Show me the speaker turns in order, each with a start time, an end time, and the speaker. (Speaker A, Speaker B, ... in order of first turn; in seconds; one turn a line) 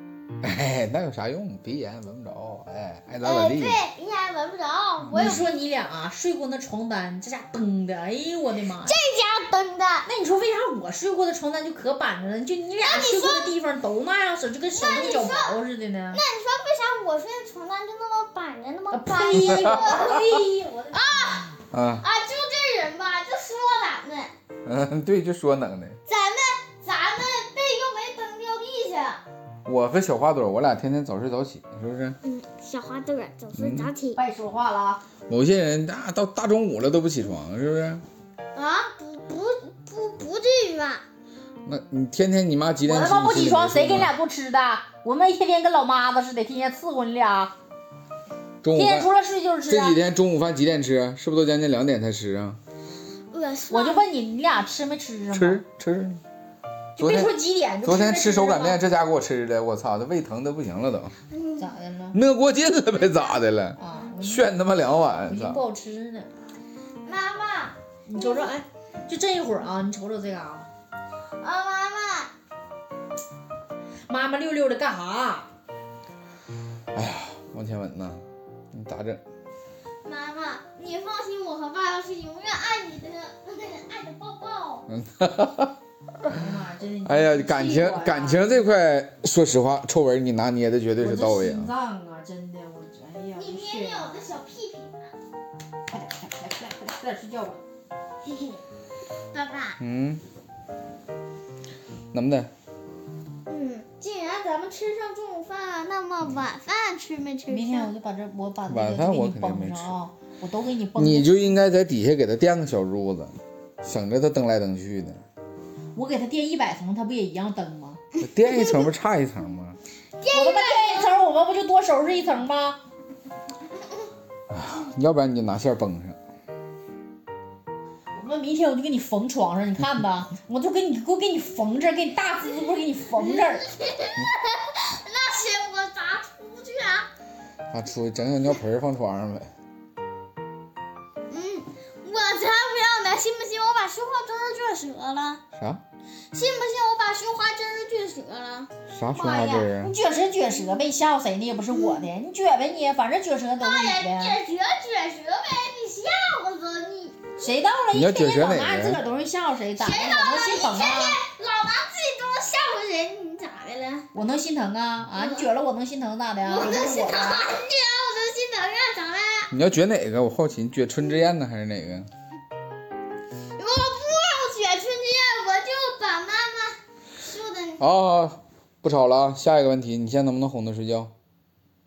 Speaker A: 0.4-3.8
Speaker B: 3.2-5.5
Speaker A: 5.0-5.4
Speaker C: 5.1-8.9
Speaker B: 8.8-10.1
Speaker C: 10.0-16.2
Speaker B: 12.8-13.5
Speaker B: 14.7-15.6
Speaker B: 16.1-20.3
Speaker C: 18.9-21.1
Speaker A: 19.4-20.0
Speaker B: 20.9-24.3
Speaker A: 21.7-22.0
Speaker A: 24.6-26.0
Speaker B: 26.1-29.2
Speaker A: 29.6-32.2
Speaker B: 32.2-34.2
Speaker A: 33.5-33.9
Speaker C: 34.1-35.0
Speaker A: 35.3-38.0
Speaker B: 38.5-41.0
Speaker A: 41.6-44.1
Speaker C: 42.8-47.5
Speaker A: 48.6-49.1
Speaker C: 48.7-50.0
Speaker A: 49.7-52.6
Speaker B: 53.3-54.0
Speaker C: 53.7-55.6
Speaker A: 55.3-56.2
Speaker C: 57.0-58.8
Speaker A: 57.0-61.1
Speaker B: 61.3-61.6
Speaker C: 61.6-62.2
Speaker A: 62.1-65.6
Speaker C: 63.8-64.5
Speaker C: 65.2-66.3
Speaker B: 67.0-68.5
Speaker C: 68.0-70.7
Speaker B: 71.4-72.3
Speaker C: 74.1-75.5
Speaker A: 76.9-79.2
Speaker B: 80.0-84.8
Speaker A: 84.9-85.7
Speaker C: 86.3-88.7
Speaker A: 87.0-91.7
Speaker C: 91.0-94.1
Speaker B: 93.4-95.1
Speaker C: 95.9-97.6
Speaker B: 98.2-98.6
Speaker B: 99.3-99.8
Speaker A: 99.8-100.2
Speaker A: 102.1-102.5
Speaker B: 103.5-107.9
Speaker C: 107.5-111.3
Speaker A: 108.7-109.9
Speaker A: 110.9-115.2
Speaker C: 115.9-118.0
Speaker A: 118.2-119.8
Speaker B: 118.4-118.9
Speaker B: 120.2-121.1
Speaker C: 120.3-122.8
Speaker A: 124.5-126.2
Speaker C: 128.1-133.7
Speaker B: 133.7-137.1
Speaker A: 137.7-139.5
Speaker B: 141.3-145.4
Speaker A: 145.5-145.8
Speaker B: 146.3-149.7
Speaker A: 148.9-149.9
Speaker C: 149.7-154.4
Speaker B: 151.7-152.1
Speaker B: 153.6-157.4
Speaker C: 157.4-161.2
Speaker A: 157.9-159.0
Speaker B: 159.8-164.1
Speaker C: 164.1-167.4
Speaker B: 165.1-165.5
Speaker B: 166.4-169.5
Speaker A: 169.5-172.1
Speaker B: 173.6-177.8
Speaker A: 177.8-181.1